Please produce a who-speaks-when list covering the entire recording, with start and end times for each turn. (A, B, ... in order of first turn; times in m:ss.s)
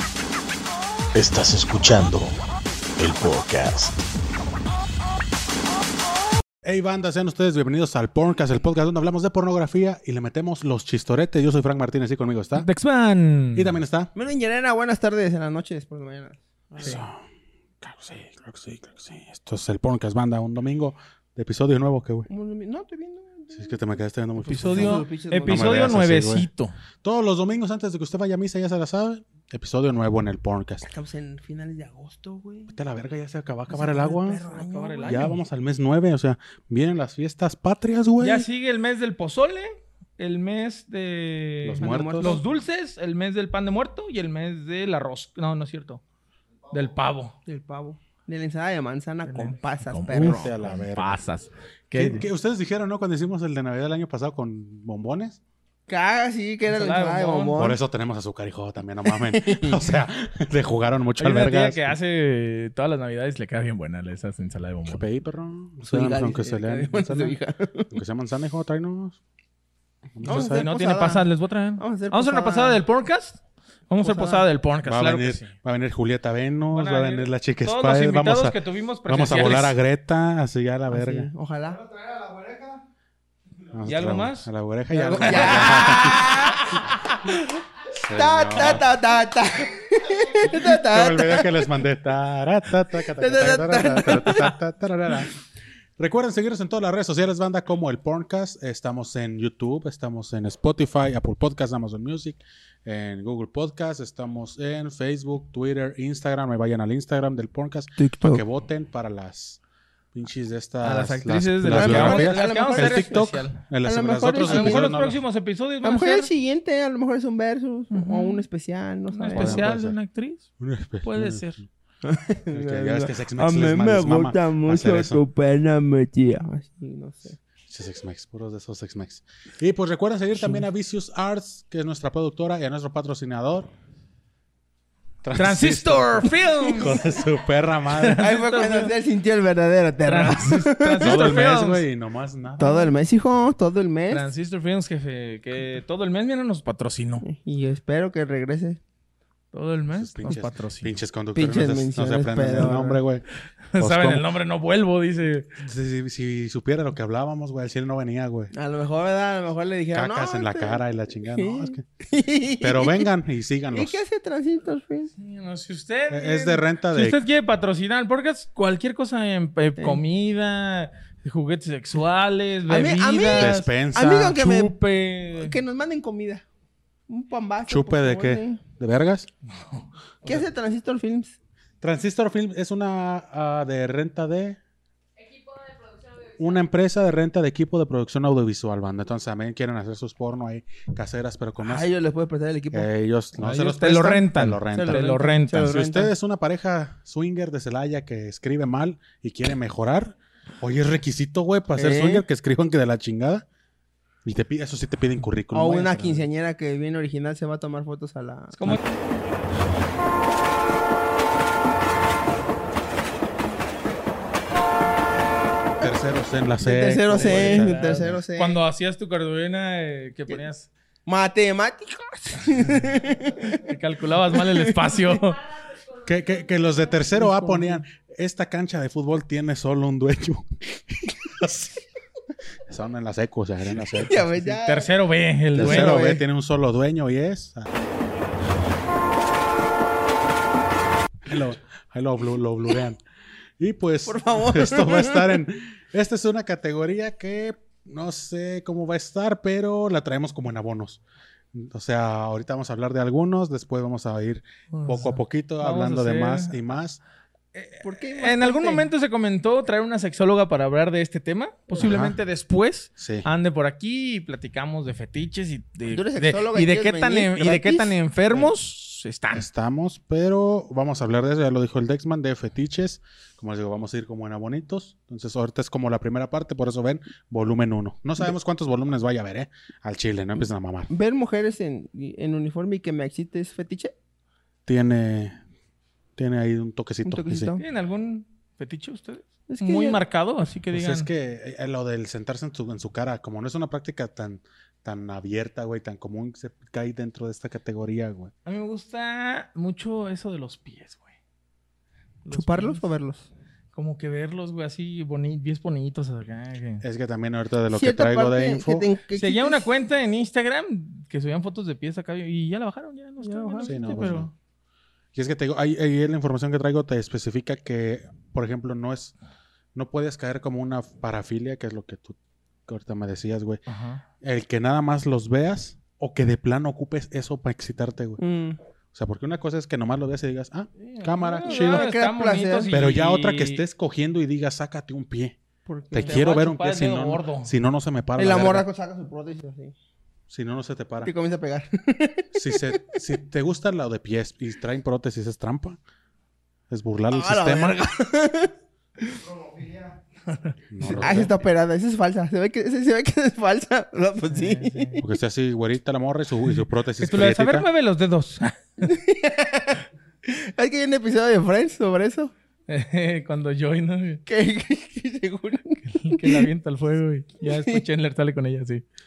0:01.1-0:02.3 A
0:01.2-0:01.8 B
0:03.0-0:03.9 A
0:06.6-0:12.7 B
0:12.6-0:13.7 C
0:13.5-0:14.1 B
0:14.2-0:17.0 D
0:16.8-0:17.2 B
0:17.8-0:22.3 B
0:22.3-0:26.0 D
0:23.5-0:26.5 B
0:24.5-0:26.8 C
0:27.0-0:30.9 B
0:30.8-0:32.8 D
0:32.7-0:34.4 B
0:33.7-0:35.3 D
0:34.5-0:35.3 C
0:35.0-0:38.5 B
0:38.2-0:46.0 C
0:41.6-0:42.4 B
0:41.8-0:42.4 D
0:46.7-0:47.4 C
0:47.5-0:50.5 D
0:49.3-0:52.3 C
0:50.1-0:51.2 B
0:51.9-0:55.4 B
0:55.9-0:57.8 D
0:56.7-0:57.6 C
0:57.6-1:02.0 B
0:59.1-0:59.8 D
1:01.2-1:05.0 C
1:04.9-1:07.4 B
1:05.8-1:07.9 D
1:07.9-1:09.2 B
1:10.1-1:10.7 B
1:10.2-1:11.2 D
1:10.2-1:13.4 C
1:11.8-1:12.8 D
1:13.9-1:15.5 C
1:14.0-1:14.4 D
1:14.8-1:18.6 B
1:16.7-1:19.8 C
1:19.1-1:21.3 B
1:20.9-1:21.8 D
1:23.7-1:26.5 B
1:23.8-1:24.5 C
1:24.9-1:27.4 D
1:25.0-1:26.4 C
1:28.0-1:28.8 B
1:28.0-1:31.7 D
1:30.4-1:35.3 B
1:33.1-1:34.6 D
1:36.0-1:49.6 B
1:48.0-1:48.4 D
1:50.1-1:55.2 B
1:50.8-1:53.6 C
1:51.7-1:53.2 D
1:53.8-1:55.0 D
1:54.4-1:56.3 C
1:55.8-1:59.7 D
1:57.9-1:58.4 C
1:59.1-2:00.4 C
1:59.3-2:00.0 B
2:00.6-2:01.6 B
2:01.0-2:01.6 C
2:02.0-2:07.4 D
2:02.5-2:05.2 B
2:07.7-2:13.7 B
2:15.2-2:18.2 B
2:15.4-2:17.0 C
2:16.6-2:16.9 D
2:17.9-2:18.9 C
2:18.2-2:21.3 D
2:20.1-2:21.8 C
2:21.0-2:22.9 B
2:22.6-2:24.2 D
2:24.1-2:27.2 C
2:27.2-2:28.8 D
2:29.5-2:31.0 C
2:30.0-2:33.2 B
2:31.3-2:33.0 D
2:33.7-2:35.6 C
2:33.8-2:34.2 B
2:35.6-2:38.5 B
2:38.5-2:40.8 D
2:39.9-2:41.8 B
2:41.3-2:43.1 D
2:42.6-2:44.0 B
2:43.7-2:45.1 D
2:45.2-2:53.7 C
2:46.1-2:47.2 B
2:52.7-2:54.8 D
2:53.3-2:54.4 B
2:54.2-2:55.6 C
2:55.4-2:56.4 D
2:57.1-2:58.6 D
2:57.7-2:59.3 B
2:59.5-3:00.5 C
3:00.2-3:01.3 D
3:01.8-3:04.6 B
3:06.3-3:11.9 B
3:11.6-3:12.9 D
3:12.7-3:23.5 B
3:13.4-3:15.7 C
3:14.7-3:16.1 D
3:21.8-3:22.2 D
3:24.2-3:26.3 B
3:25.5-3:28.8 D
3:35.8-3:38.2 B
3:36.6-3:38.6 D
3:37.1-3:40.7 C
3:41.1-3:43.7 D
3:43.5-3:45.4 C
3:44.3-3:45.2 D
3:45.9-3:51.8 B
3:47.2-3:47.8 D
3:52.7-3:54.4 B
3:53.9-3:54.9 D
3:54.6-3:56.2 C
3:55.5-3:57.7 B
3:55.6-3:56.1 D
4:01.2-4:03.0 B
4:03.6-4:11.0 B
4:04.1-4:05.3 D
4:11.5-4:17.0 B
4:14.7-4:16.6 C
4:17.5-4:29.5 C
4:17.8-4:18.9 D
4:21.8-4:22.2 B
4:23.0-4:23.2 B
4:25.9-4:28.5 D
4:29.3-4:40.9 B
4:40.9-4:43.9 D
4:44.7-4:45.4 B
4:46.2-4:47.5 B
4:47.0-4:47.6 D
4:47.6-4:51.1 C
4:49.5-4:50.0 D
4:50.7-4:58.3 B
4:58.4-5:01.1 C
5:02.2-5:02.8 C
5:02.3-5:03.3 D
5:03.7-5:06.8 C
5:06.8-5:08.9 B
5:07.7-5:09.7 D
5:09.1-5:14.3 C
5:13.2-5:14.1 D
5:13.6-5:14.3 B
5:15.1-5:19.1 B
5:19.8-5:23.6 B
5:23.7-5:24.0 C
5:24.2-5:28.2 B
5:28.2-5:28.6 D
5:28.9-5:31.9 B
5:30.8-5:33.6 C
5:31.4-5:32.8 D
5:32.7-5:35.4 B
5:35.7-5:36.2 D
5:35.9-5:38.7 B
5:36.0-5:37.5 C
5:38.2-5:39.8 D
5:40.3-5:41.1 B
5:41.0-5:43.0 D
5:42.3-5:45.8 B
5:46.7-5:47.8 B
5:47.1-5:48.5 D
5:49.0-5:49.8 D
5:50.7-5:51.3 B
5:50.8-5:55.0 D
5:54.3-5:55.0 C
5:55.0-5:57.7 B
5:57.0-5:58.9 C
5:58.8-6:02.3 D
6:02.7-6:04.2 C
6:04.3-6:06.5 D
6:05.9-6:08.8 C
6:07.4-6:07.8 D